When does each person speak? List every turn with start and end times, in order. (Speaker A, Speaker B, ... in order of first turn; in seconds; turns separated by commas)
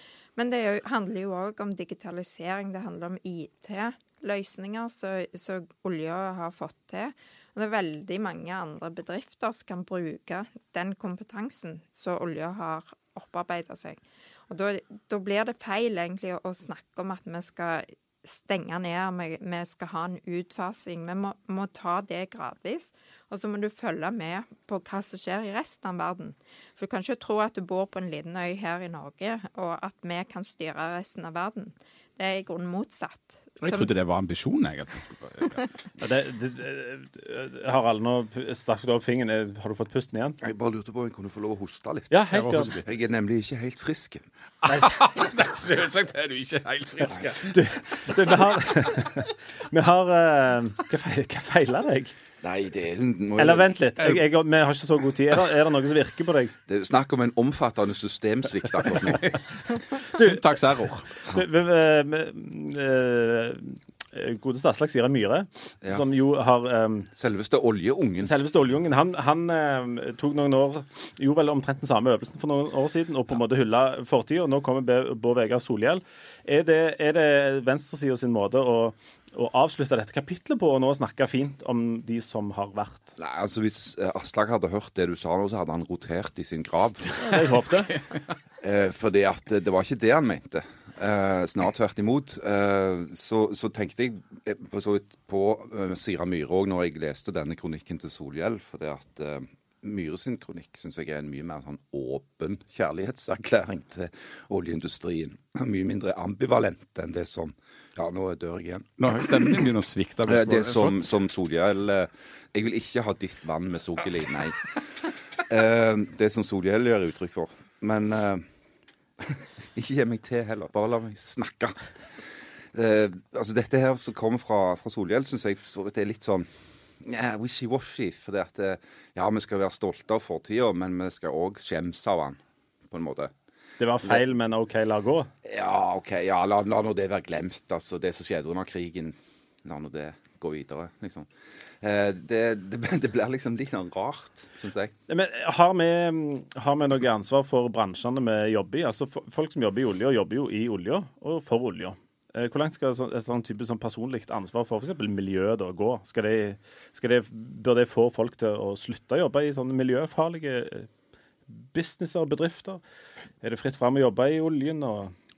Speaker A: 0.4-33.9, Speaker B: 33.6-35.6, Speaker C: 36.0-40.4, Speaker D: 40.4-42.2, Speaker C: 42.1-42.8, Speaker B: 42.3-42.9, Speaker D: 42.8-44.2, Speaker B: 44.6-49.1, Speaker C: 44.7-44.9, Speaker C: 47.5-52.1, Speaker D: 52.4-53.7, Speaker C: 53.4-56.5, Speaker D: 56.7-59.8, Speaker B: 60.1-61.1, Speaker C: 60.1-60.4, Speaker C: 61.2-67.1, Speaker D: 67.1-68.3, Speaker C: 68.2-83.1, Speaker D: 83.2-87.6, Speaker C: 87.2-88.0, Speaker D: 88.6-109.6, Speaker B: 109.0-111.1, Speaker D: 110.3-118.5, Speaker D: 119.2-133.3, Speaker C: 133.8-135.3, Speaker D: 135.4-141.3, Speaker D: 141.8-144.9, Speaker C: 145.1-160.9, Speaker C: 161.5-162.8, Speaker C: 163.4-165.1